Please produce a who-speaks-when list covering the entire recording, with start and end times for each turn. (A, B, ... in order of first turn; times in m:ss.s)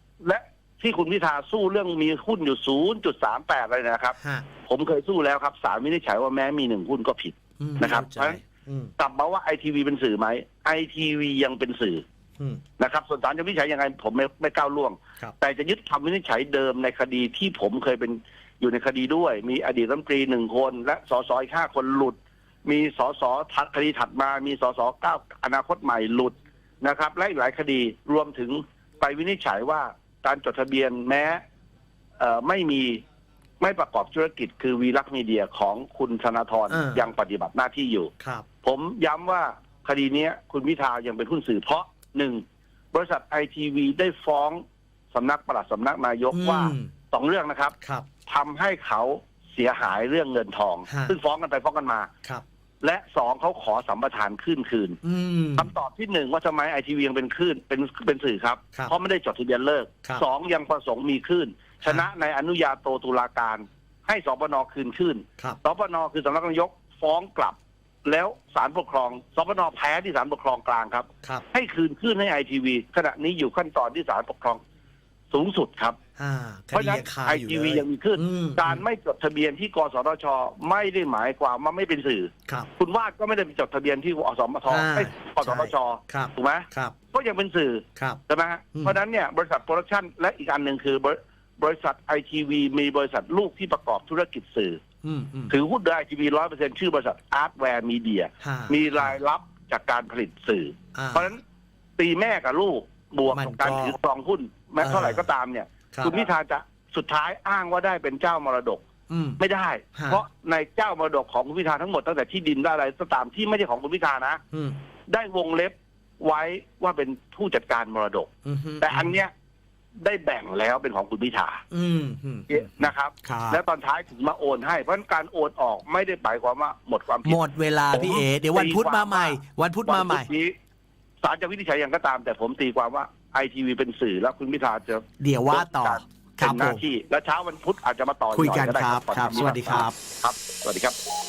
0:00.2-0:08.4 A
0:04.2-0:04.4 B
0:07.6-0:08.9 B
0:09.0-0:12.0 A
0:12.8-0:31.4 A
0:32.2-0:33.0 A
0:33.6-0:38.1 A
0:36.7-0:37.1 B
0:38.2-0:38.4 B
0:38.6-0:47.8 A
0:46.3-0:46.9 B
0:47.8-0:48.1 B
0:48.3-0:52.1 A
0:50.9-0:51.2 B
0:52.8-0:55.0 A
0:55.0-0:55.7 B
0:55.5-1:14.6 A
1:15.3-1:16.0 A
1:16.2-1:18.8 B
1:16.7-1:34.8 A
1:24.7-1:26.9 B
1:35.0-1:35.5 B
1:35.5-1:41.4 A
1:38.4-1:39.2 B
1:40.9-1:41.3 B
1:42.0-1:48.8 A
1:43.3-1:44.0 B
1:44.8-1:45.3 B
1:45.9-1:46.2 B
1:49.1-1:49.4 B
1:49.4-1:54.4 A
1:50.0-1:50.2 B
1:54.5-1:54.8 B
1:55.1-1:59.3 A
1:58.4-1:59.2 B
2:00.0-2:01.6 A
2:01.7-2:03.6 B
2:02.5-2:07.4 A
2:07.2-2:10.3 B
2:07.9-2:10.5 A
2:11.2-2:21.0 A
2:15.2-2:16.8 B
2:18.3-2:20.0 B